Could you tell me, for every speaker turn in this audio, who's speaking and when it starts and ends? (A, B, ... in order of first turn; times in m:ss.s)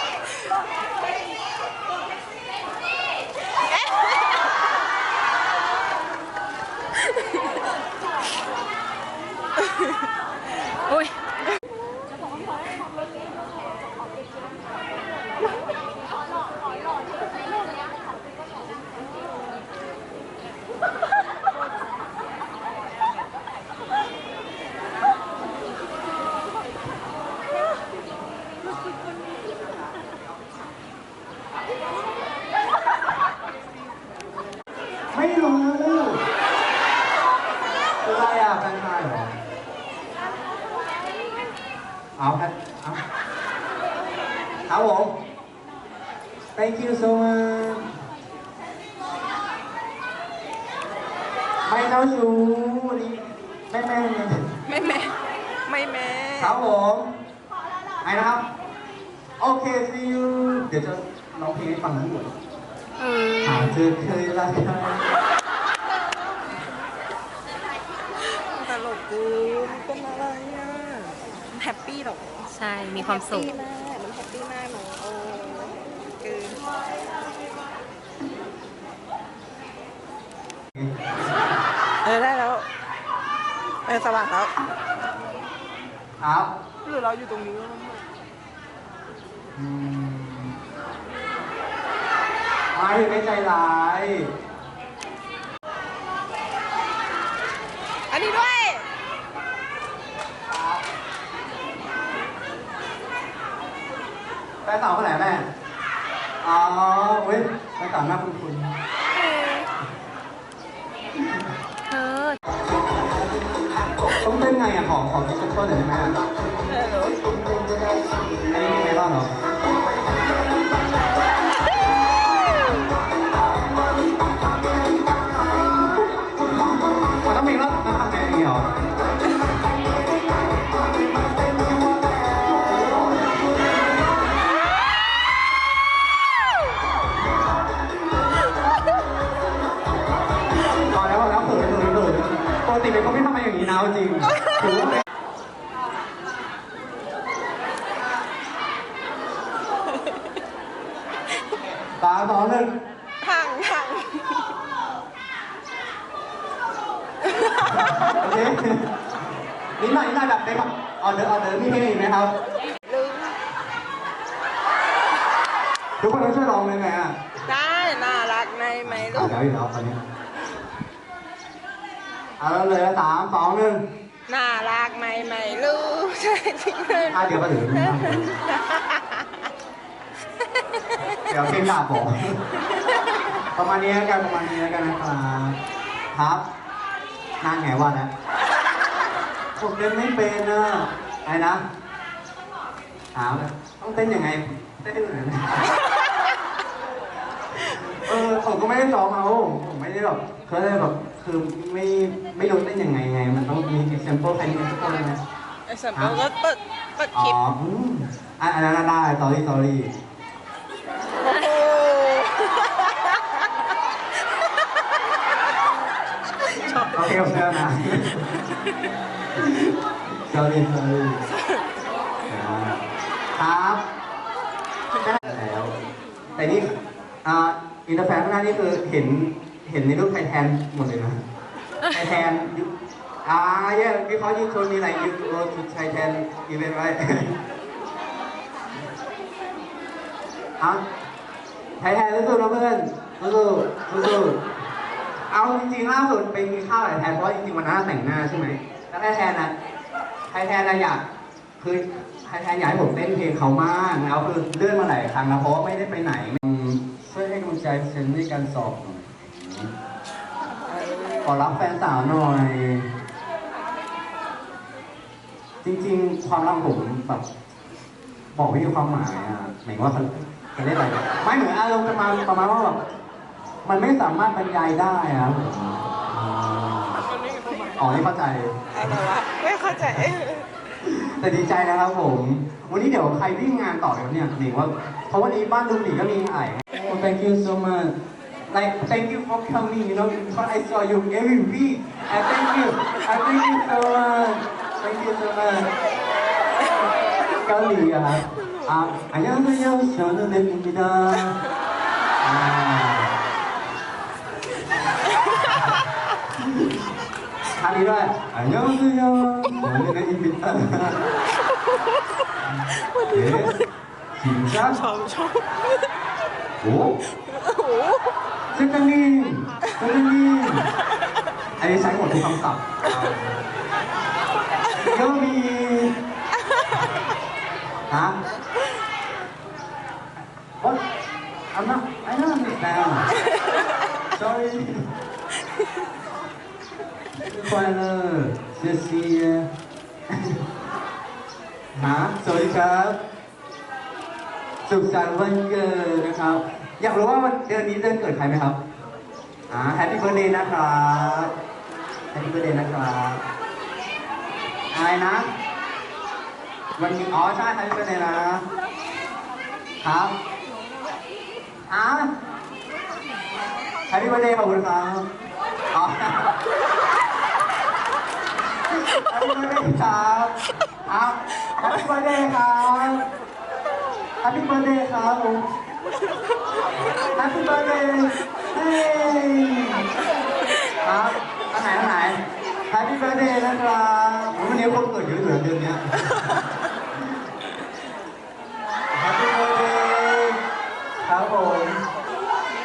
0:35.1-0:36.2 A
0:38.0-0:39.4 A
0:42.2-0:43.0 A
0:44.7-0:45.2 A
0:46.6-0:47.9 A
0:51.7-0:54.5 A
0:54.7-0:56.6 B
0:56.4-0:57.1 A
0:58.0-0:58.5 A
0:59.4-1:02.3 A
1:03.0-1:03.7 C
1:03.4-1:05.1 A
1:08.4-1:16.6 B
1:12.5-1:13.5 C
1:20.8-1:21.0 A
1:22.0-1:22.7 B
1:23.9-1:24.6 B
1:26.2-1:26.5 A
1:27.2-1:27.7 B
1:29.6-1:30.6 A
1:32.7-1:34.3 A
1:38.1-1:38.9 B
1:40.5-1:40.8 A
1:44.6-1:45.5 A
1:46.4-1:48.7 A
1:51.9-1:52.4 C
1:54.2-1:56.2 A
1:56.7-1:58.1 B
1:58.4-1:59.3 A
2:07.2-2:08.7 A
2:20.8-2:25.0 A
2:32.0-2:32.7 A
2:33.2-2:34.5 B
2:37.4-2:37.8 B
2:37.9-2:38.9 A
2:39.8-2:42.4 A
2:42.8-2:43.4 B
2:46.0-2:47.2 A
2:47.4-2:49.3 B
2:48.8-2:50.0 A
2:52.4-2:53.8 A
2:54.3-2:57.2 B
2:57.1-2:58.3 A
2:57.8-2:59.3 B
3:01.3-3:02.4 A
3:03.6-3:05.6 A
3:06.1-3:06.4 A
3:07.4-3:08.1 A
3:09.6-3:11.6 A
3:13.2-3:15.7 A
3:17.6-3:25.2 A
3:25.7-3:27.4 B
3:25.9-3:26.2 A
3:27.1-3:29.9 A
3:31.2-3:33.4 B
3:36.7-3:38.4 A
3:39.4-3:41.2 A
3:42.3-3:43.8 A
3:45.0-3:45.8 A
3:46.4-3:46.7 A
3:47.2-3:51.2 A
3:51.9-3:52.7 A
3:53.2-3:57.4 A
4:01.8-4:04.4 A
4:05.3-4:09.5 A
4:10.3-4:11.0 A
4:11.6-4:19.8 A
4:20.8-4:21.2 B
4:21.2-4:22.9 A
4:25.6-4:27.2 A
4:28.3-4:32.8 A
4:33.6-4:37.0 A
4:37.3-4:37.8 B
4:37.8-4:38.7 A
4:38.8-4:40.5 B
4:40.8-4:48.0 A
4:48.5-4:55.7 A
4:57.3-5:01.4 A
5:02.2-5:03.1 A
5:07.6-5:11.0 A
5:13.1-5:13.6 A
5:14.2-5:14.8 A
5:14.8-5:15.5 B
5:16.6-5:17.0 A
5:17.3-5:18.1 B
5:18.5-5:20.7 A
5:21.6-5:23.4 A
5:24.7-5:26.0 A
5:27.9-5:28.2 A
5:30.6-5:30.9 A
5:31.5-5:33.1 A
5:34.1-5:34.9 A
5:37.2-5:39.5 A
5:41.7-5:43.0 A
5:44.7-5:48.6 A
5:49.5-5:51.3 A
5:52.1-5:53.2 A
5:54.7-5:55.3 A
5:56.8-5:58.4 A
5:59.8-6:00.2 A
6:01.7-6:02.1 A
6:03.9-6:05.1 A
6:05.7-6:06.4 A
6:08.7-6:13.1 A
6:14.2-6:15.5 A
6:17.1-6:19.8 A
6:20.8-6:26.4 A
6:28.9-6:30.4 A
6:31.0-6:31.8 A